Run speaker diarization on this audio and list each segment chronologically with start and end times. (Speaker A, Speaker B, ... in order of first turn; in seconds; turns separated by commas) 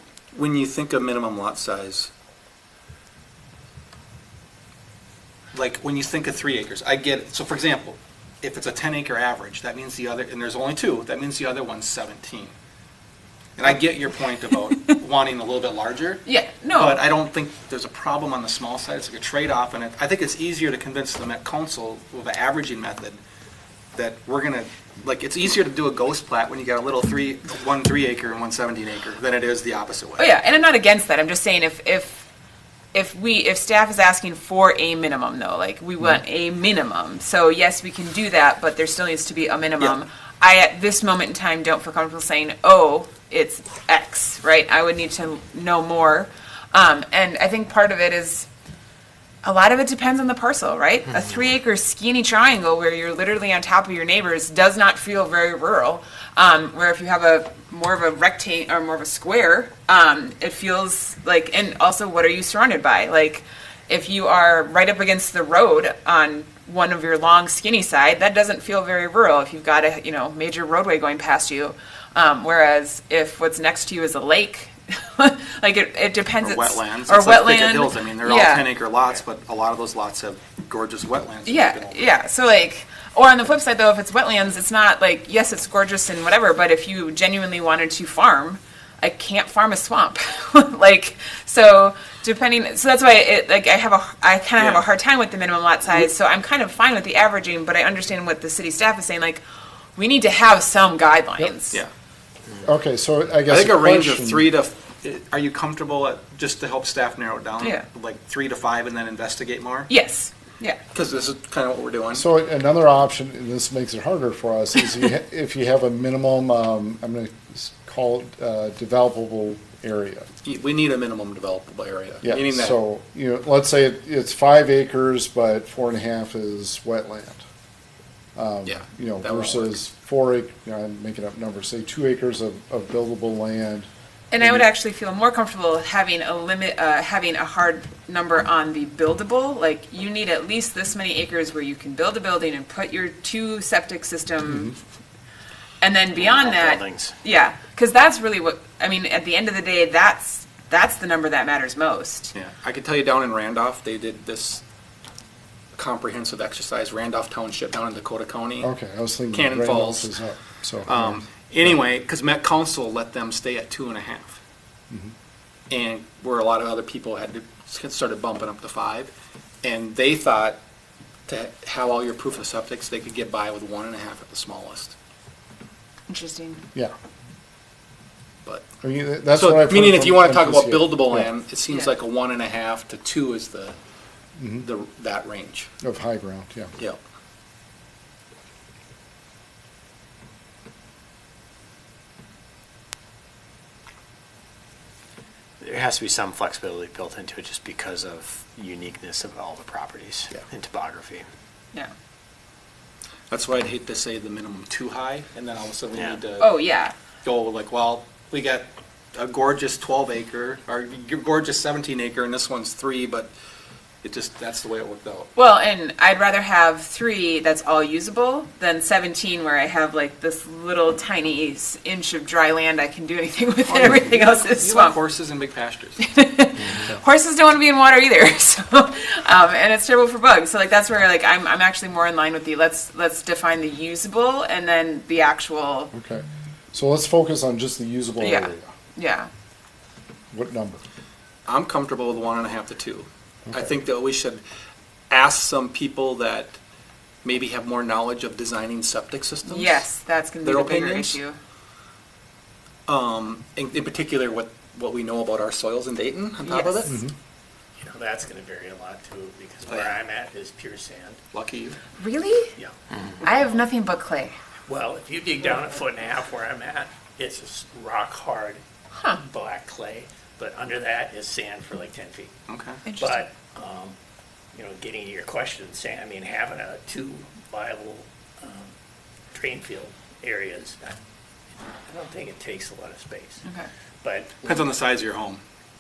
Speaker A: 0.3-2.1, Speaker A: 5.5-12.6, Speaker A: 13.6-23.2, Speaker B: 16.3-17.0, Speaker A: 23.9-30.3, Speaker B: 30.2-32.3, Speaker B: 32.9-48.5, Speaker B: 49.4-78.7, Speaker A: 76.4-82.1, Speaker B: 81.5-99.4, Speaker A: 94.6-94.8, Speaker B: 100.0-101.8, Speaker C: 102.6-104.5, Speaker A: 103.5-109.9, Speaker B: 109.9-110.8, Speaker A: 110.9-112.2, Speaker C: 112.1-120.3, Speaker A: 120.4-122.8, Speaker C: 122.2-127.4, Speaker C: 128.4-134.7, Speaker A: 128.7-129.8, Speaker B: 134.3-144.8, Speaker C: 144.5-144.8, Speaker B: 145.8-152.3, Speaker D: 146.2-147.1, Speaker A: 152.3-154.6, Speaker A: 155.8-158.7, Speaker C: 158.6-161.8, Speaker A: 159.3-160.1, Speaker A: 160.9-164.4, Speaker A: 165.7-169.1, Speaker A: 169.6-170.6, Speaker A: 171.3-174.9, Speaker B: 176.1-176.6, Speaker C: 178.8-181.3, Speaker A: 179.3-183.8, Speaker B: 181.7-181.9, Speaker C: 184.4-184.7, Speaker A: 184.6-185.7, Speaker C: 185.8-186.8, Speaker D: 195.6-201.3, Speaker A: 203.3-206.6, Speaker D: 205.9-206.2, Speaker B: 206.4-206.9, Speaker A: 207.2-213.3, Speaker A: 214.0-215.3, Speaker B: 215.4-225.0, Speaker A: 223.7-226.0, Speaker B: 226.0-235.9, Speaker C: 235.9-238.7, Speaker B: 238.2-239.3, Speaker C: 240.3-240.8, Speaker A: 241.5-244.4, Speaker C: 243.5-243.8, Speaker A: 245.1-246.6, Speaker A: 247.2-249.8, Speaker B: 249.5-251.4, Speaker A: 250.4-251.2, Speaker A: 252.9-257.0, Speaker B: 256.4-256.9, Speaker C: 256.9-257.1, Speaker E: 257.8-261.2, Speaker A: 259.7-260.0, Speaker A: 261.3-261.8, Speaker B: 262.0-262.5, Speaker B: 263.2-264.4, Speaker E: 264.7-268.6, Speaker B: 269.0-269.2, Speaker E: 269.2-272.3, Speaker A: 272.5-272.8, Speaker B: 272.9-273.3, Speaker E: 273.0-273.9, Speaker E: 274.5-278.7, Speaker E: 279.3-281.0, Speaker E: 281.9-283.4, Speaker B: 283.4-283.7, Speaker E: 284.0-284.7, Speaker A: 284.4-285.4